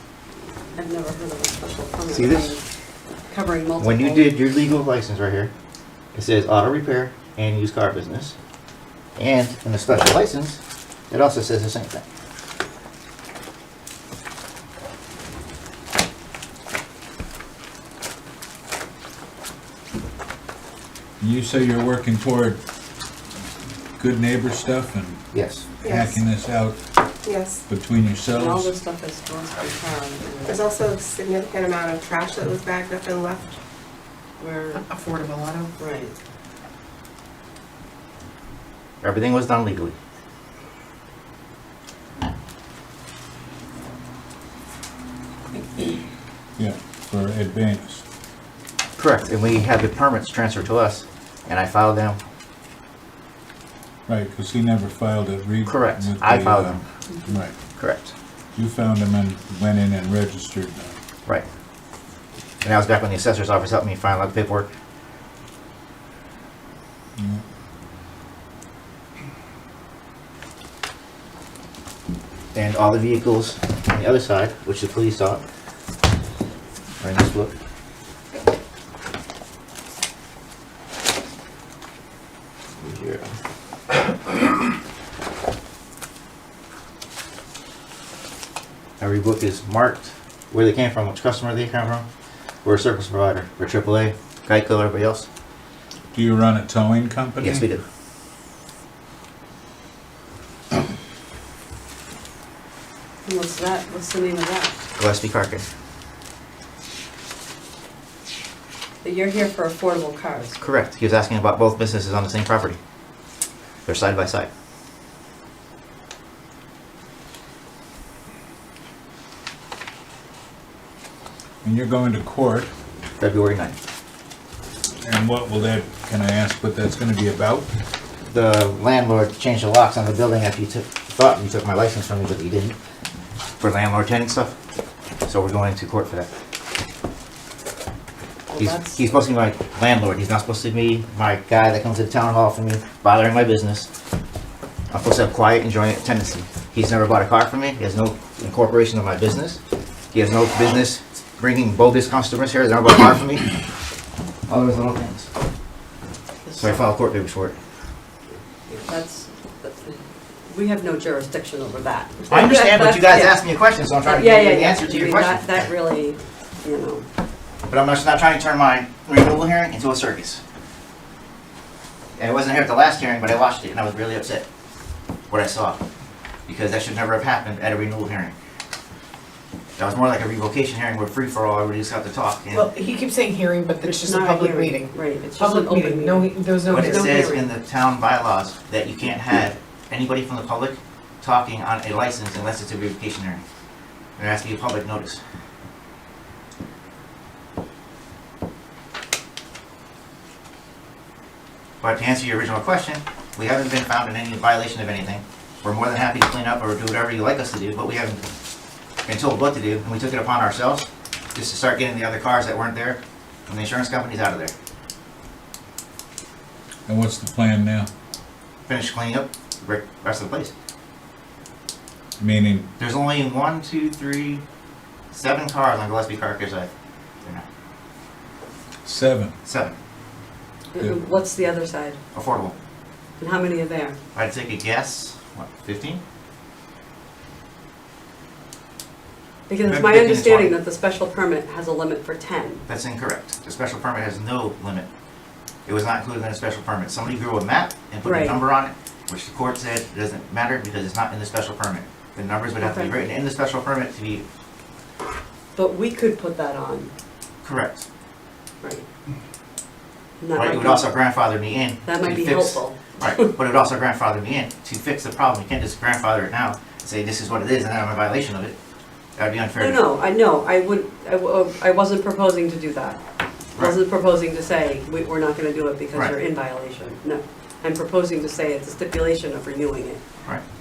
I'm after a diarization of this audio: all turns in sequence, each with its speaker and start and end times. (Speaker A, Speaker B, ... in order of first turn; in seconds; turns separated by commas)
Speaker A: 0.8-2.6, Speaker B: 2.1-2.5, Speaker A: 3.3-4.3, Speaker B: 3.8-5.5, Speaker B: 6.1-8.3, Speaker B: 9.2-12.0, Speaker C: 21.2-22.6, Speaker C: 24.0-25.3, Speaker B: 25.3-25.7, Speaker D: 25.8-26.2, Speaker C: 25.8-26.8, Speaker D: 27.2-27.6, Speaker C: 27.7-28.7, Speaker A: 28.3-30.6, Speaker D: 30.5-33.6, Speaker A: 34.4-34.8, Speaker E: 34.9-35.7, Speaker A: 35.8-36.1, Speaker B: 39.0-40.0, Speaker C: 46.6-48.0, Speaker B: 49.0-52.2, Speaker C: 54.1-57.5, Speaker B: 55.6-56.8, Speaker B: 57.8-58.1, Speaker C: 58.5-61.0, Speaker B: 62.6-64.7, Speaker C: 67.2-67.4, Speaker B: 72.5-75.4, Speaker B: 77.0-77.5, Speaker B: 82.8-83.3, Speaker B: 89.0-92.1, Speaker B: 92.6-95.3, Speaker C: 96.1-97.6, Speaker B: 97.4-97.8, Speaker A: 103.2-104.7, Speaker B: 105.0-105.6, Speaker A: 109.0-110.6, Speaker B: 110.6-112.8, Speaker B: 113.8-114.5, Speaker C: 121.6-122.7, Speaker B: 123.2-123.8, Speaker C: 125.0-127.7, Speaker B: 128.2-132.8, Speaker B: 133.6-134.5, Speaker B: 135.2-136.3, Speaker A: 138.5-139.1, Speaker B: 138.6-143.9, Speaker B: 144.9-149.6, Speaker B: 150.1-153.5, Speaker B: 154.5-155.3, Speaker B: 156.6-157.6, Speaker A: 158.7-160.0, Speaker A: 160.5-163.4, Speaker B: 162.3-165.7, Speaker A: 164.0-167.1, Speaker B: 167.7-170.4, Speaker B: 172.2-174.4, Speaker B: 175.3-175.8, Speaker B: 176.5-178.3, Speaker B: 179.8-182.7, Speaker E: 182.5-187.1, Speaker A: 183.8-187.5, Speaker B: 186.7-193.4, Speaker B: 194.2-195.2, Speaker B: 201.8-208.3, Speaker B: 209.1-214.5, Speaker C: 216.9-217.9, Speaker B: 218.7-220.5, Speaker C: 222.2-222.7, Speaker B: 222.8-224.4, Speaker B: 225.1-226.7, Speaker C: 228.8-229.3, Speaker B: 229.4-229.8, Speaker A: 230.7-232.0, Speaker B: 232.1-232.5, Speaker A: 233.2-234.0, Speaker B: 234.1-236.0, Speaker A: 239.5-242.6, Speaker B: 239.6-240.5, Speaker B: 242.7-244.9, Speaker B: 245.7-254.2, Speaker A: 248.0-248.4, Speaker A: 252.6-252.9, Speaker A: 255.5-256.9, Speaker B: 257.4-257.9, Speaker A: 260.2-260.9, Speaker B: 260.3-268.5, Speaker A: 261.9-263.3, Speaker B: 269.2-269.8, Speaker A: 269.6-273.0, Speaker A: 273.6-280.0